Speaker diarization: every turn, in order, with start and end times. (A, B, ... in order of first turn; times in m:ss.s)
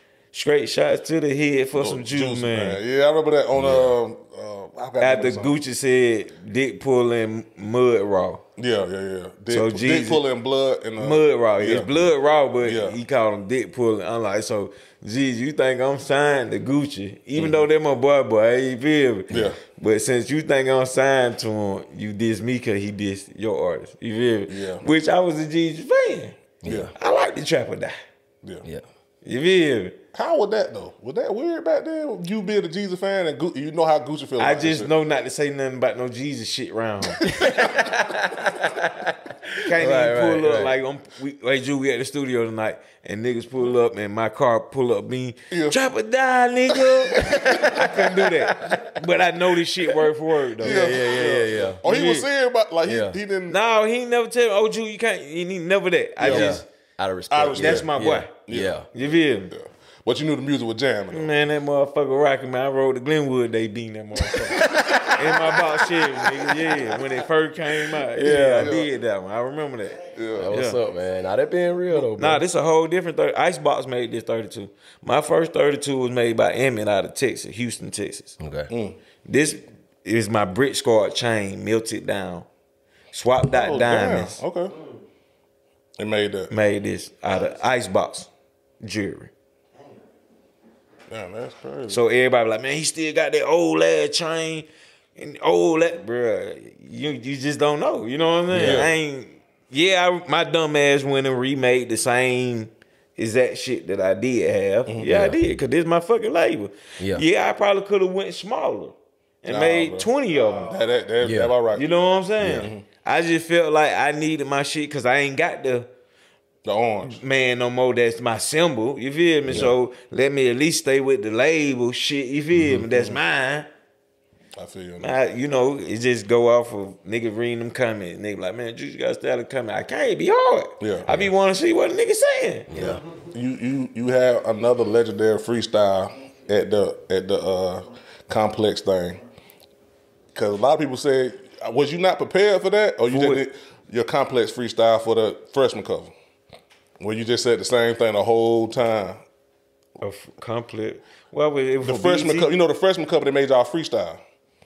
0:00.3-0:02.8 A
0:01.7-0:05.6 B
0:03.6-0:03.9 C
0:05.0-0:08.4 A
0:08.6-0:12.1 B
0:09.5-0:10.2 A
0:11.0-0:26.4 A
0:12.6-0:13.0 B
0:17.4-0:17.6 C
0:19.3-0:19.6 B
0:24.5-0:24.8 B
0:26.6-0:26.9 C
0:26.6-0:26.9 B
0:27.0-0:28.0 A
0:29.2-0:30.0 A
0:30.1-0:34.9 B
0:34.4-0:37.3 A
0:37.1-0:37.6 B
0:37.2-0:40.8 C
0:39.6-0:51.2 A
0:45.5-0:45.8 B
0:47.1-0:47.5 B
0:47.1-0:48.8 C
0:50.6-0:51.8 C
0:50.6-0:53.6 B
0:51.8-0:52.2 A
0:52.8-0:53.2 C
0:53.5-0:56.6 A
0:56.2-0:56.5 B
0:56.2-0:58.9 C
0:57.3-0:57.9 B
0:57.5-0:58.3 A
0:58.5-1:01.3 B
0:58.9-0:59.5 A
1:01.1-1:10.8 A
1:04.4-1:06.8 B
1:04.7-1:05.0 C
1:07.9-1:08.9 B
1:08.3-1:08.7 C
1:10.1-1:10.5 B
1:10.4-1:12.4 C
1:11.9-1:18.4 A
1:18.4-1:18.7 C
1:18.7-1:19.0 B
1:19.2-1:22.5 A
1:23.1-1:24.4 A
1:23.4-1:24.7 B
1:26.0-1:26.5 B
1:26.5-1:28.3 A
1:28.8-1:29.3 A
1:31.1-1:32.0 B
1:31.9-1:50.7 A
1:38.5-1:38.8 C
1:38.6-1:38.9 B
1:45.0-1:45.5 C
1:47.0-1:47.2 C
1:49.4-1:51.9 B
1:51.2-1:51.5 C
1:51.7-1:55.9 A
1:52.4-1:52.7 C
1:52.5-1:52.8 B
1:56.6-1:57.2 B
1:57.0-2:03.7 A
1:59.5-1:59.7 C
2:02.5-2:02.8 C
2:02.9-2:03.2 B
2:04.6-2:05.2 B
2:05.0-2:12.7 A
2:10.8-2:11.1 B
2:12.7-2:13.0 C
2:13.3-2:19.2 B
2:20.3-2:26.1 B
2:23.1-2:23.4 A
2:27.0-2:29.2 B
2:30.0-2:32.5 A
2:31.8-2:34.2 B